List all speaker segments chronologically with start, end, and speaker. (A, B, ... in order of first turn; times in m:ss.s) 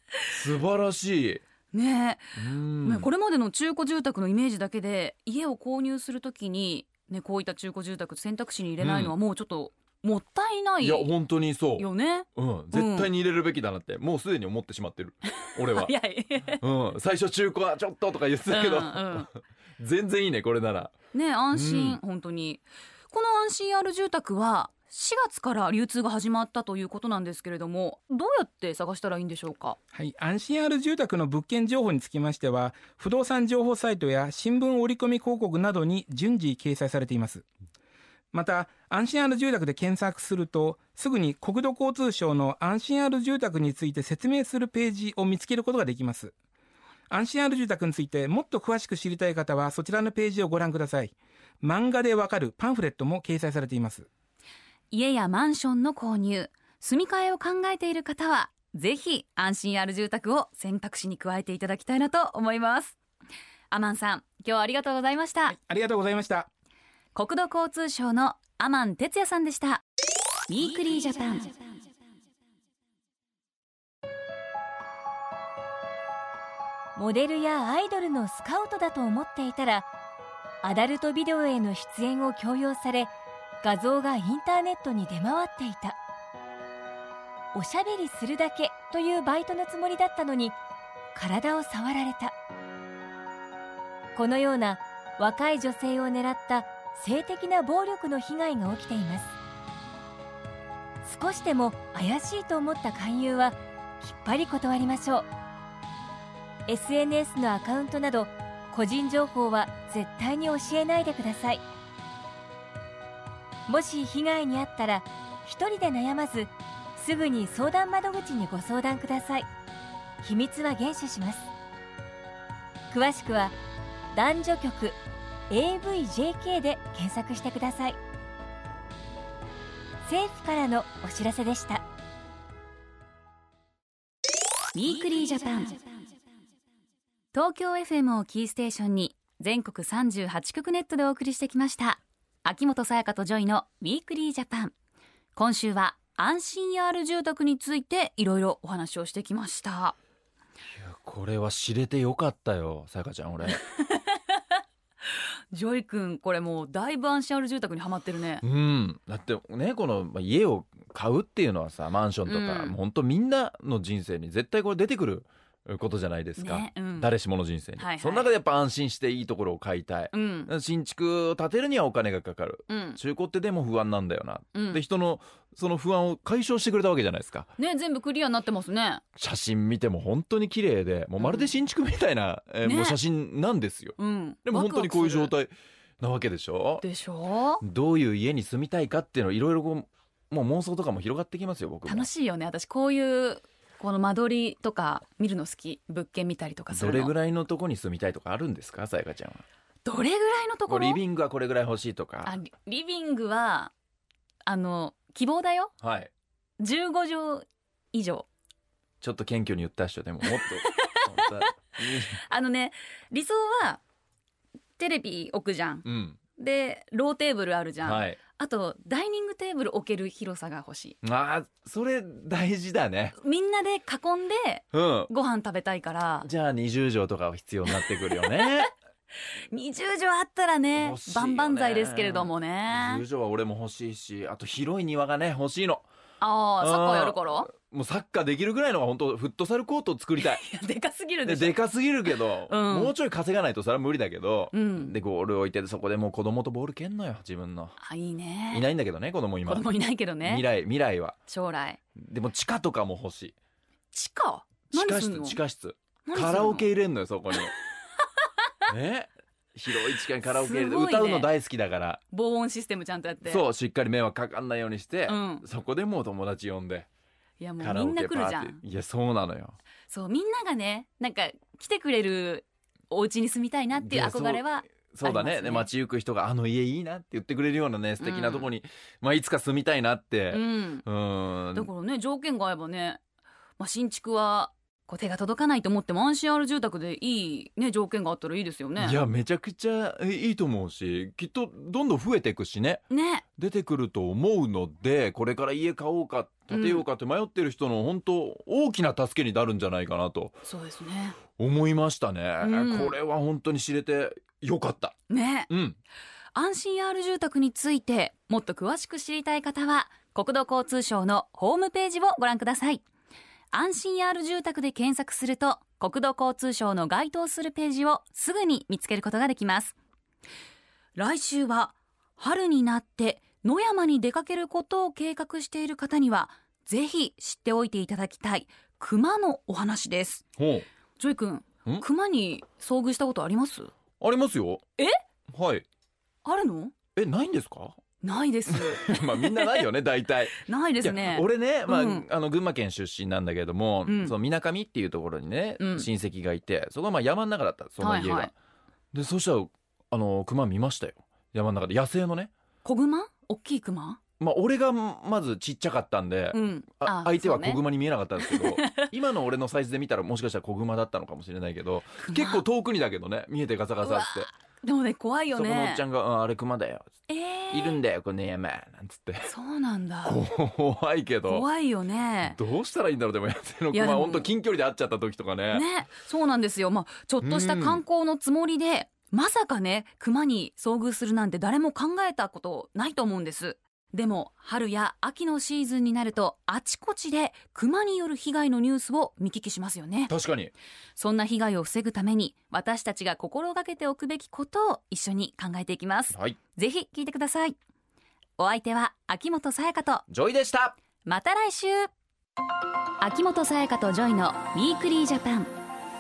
0:00.3-0:01.4 A
0:01.7-0:11.1 B
0:02.4-0:03.1 A
0:08.8-0:09.2 A
0:10.8-0:15.9 A
0:11.8-0:13.1 B
0:15.3-0:16.6 B
0:16.6-0:20.9 A
0:18.5-0:19.3 B
0:21.1-0:29.8 B
0:21.5-0:22.0 A
0:29.9-0:37.5 C
0:38.3-0:46.3 C
0:47.1-0:54.1 C
0:54.9-1:03.0 B
1:03.7-1:05.6 B
1:05.5-1:06.5 C
1:07.1-1:09.8 B
1:10.5-1:11.5 B
1:17.0-1:19.9 D
1:20.6-1:23.1 D
1:23.6-1:26.0 D
1:27.5-1:30.6 D
1:31.1-1:32.3 D
1:34.2-1:39.3 D
1:41.0-1:45.3 D
1:46.7-1:51.6 D
1:53.7-1:59.5 D
2:00.2-2:01.5 D
2:02.9-2:03.6 D
2:04.1-2:05.0 D
2:05.5-2:08.0 D
2:10.0-2:11.8 D
2:14.7-2:15.8 B
2:17.3-2:24.7 B
2:25.4-2:30.0 B
2:30.7-2:33.6 A
2:33.5-2:34.4 B
2:35.5-2:38.4 B
2:38.4-2:57.5 A
2:42.2-2:42.8 B
2:46.4-2:47.1 B
2:47.8-2:48.3 B
2:50.1-2:50.5 B
2:52.7-2:53.0 B
2:54.5-2:54.8 B
2:57.6-2:59.0 B
2:59.2-3:06.8 A
3:01.2-3:01.5 B
3:02.6-3:03.0 B
3:04.0-3:05.3 B
3:06.8-3:07.6 B
3:07.6-3:12.1 A
3:11.8-3:17.1 B
3:16.7-3:19.4 A
3:19.8-3:21.0 B
3:20.7-3:22.4 A
3:22.2-3:23.7 B
3:24.5-3:25.7 B
3:25.8-3:26.1 A
3:26.6-3:28.3 B
3:29.0-3:32.2 A
3:30.3-3:31.3 B
3:32.0-3:33.8 B
3:34.8-3:35.9 B
3:35.8-3:36.2 A
3:36.4-3:41.0 B
3:37.8-3:38.2 A
3:41.0-3:43.2 A
3:43.2-3:46.3 B
3:44.7-3:45.1 A
3:46.2-3:48.7 A
3:47.7-3:48.7 B
3:49.5-3:53.0 B
3:50.8-3:55.9 A
3:56.2-3:57.5 B
3:56.6-4:00.4 A
4:00.2-4:01.6 B
4:01.2-4:07.8 A
4:02.4-4:03.0 B
4:04.5-4:04.9 B
4:07.8-4:08.7 B
4:08.5-4:09.7 A
4:09.4-4:10.5 B
4:10.2-4:11.2 A
4:11.3-4:11.8 B
4:12.0-4:13.4 A
4:13.9-4:15.4 B
4:14.7-4:17.6 A
4:16.1-4:16.7 B
4:18.7-4:22.0 A
4:20.2-4:21.3 B
4:22.1-4:23.5 B
4:23.2-4:26.9 A
4:25.1-4:25.4 B
4:27.4-4:28.6 B
4:27.6-4:29.6 A
4:29.9-4:35.7 B
4:33.7-4:41.7 A
4:38.0-4:38.5 B
4:40.3-4:40.8 B
4:41.5-4:43.0 B
4:43.6-4:49.0 B
4:48.8-4:52.8 A
4:52.9-4:53.2 B
4:53.4-5:00.4 A
4:56.5-4:56.9 B
5:00.4-5:01.2 B
5:01.4-5:05.0 A
5:02.4-5:03.0 B
5:05.1-5:05.5 B
5:05.5-5:05.8 A
5:06.3-5:12.8 B
5:13.5-5:19.8 B
5:21.0-5:30.2 B
5:30.4-5:30.7 A
5:31.0-5:33.7 B
5:34.0-5:34.6 A
5:35.3-5:35.6 A
5:36.2-5:36.8 B
5:37.0-5:37.8 A
5:38.0-5:39.7 B
5:38.5-5:48.3 A
5:40.4-5:42.1 B
5:43.9-5:44.2 B
5:45.6-5:45.9 B
5:47.8-5:48.3 B
5:48.9-5:52.3 A
5:52.6-5:54.0 B
5:54.2-6:04.3 A
5:56.3-5:57.6 B
5:58.2-5:58.9 B
6:02.0-6:02.4 B
6:03.8-6:05.8 B
6:05.3-6:06.9 A
6:07.1-6:07.8 B
6:07.5-6:09.3 A
6:09.3-6:10.2 B
6:10.0-6:11.4 A
6:11.3-6:12.4 B
6:12.2-6:15.7 A
6:13.7-6:14.3 B
6:15.5-6:30.1 B
6:17.2-6:17.8 A
6:30.1-6:30.5 A
6:31.0-6:37.6 B
6:36.1-6:36.4 A
6:38.4-6:40.0 B
6:40.1-6:40.8 A
6:41.1-6:41.9 B
6:43.0-6:45.5 B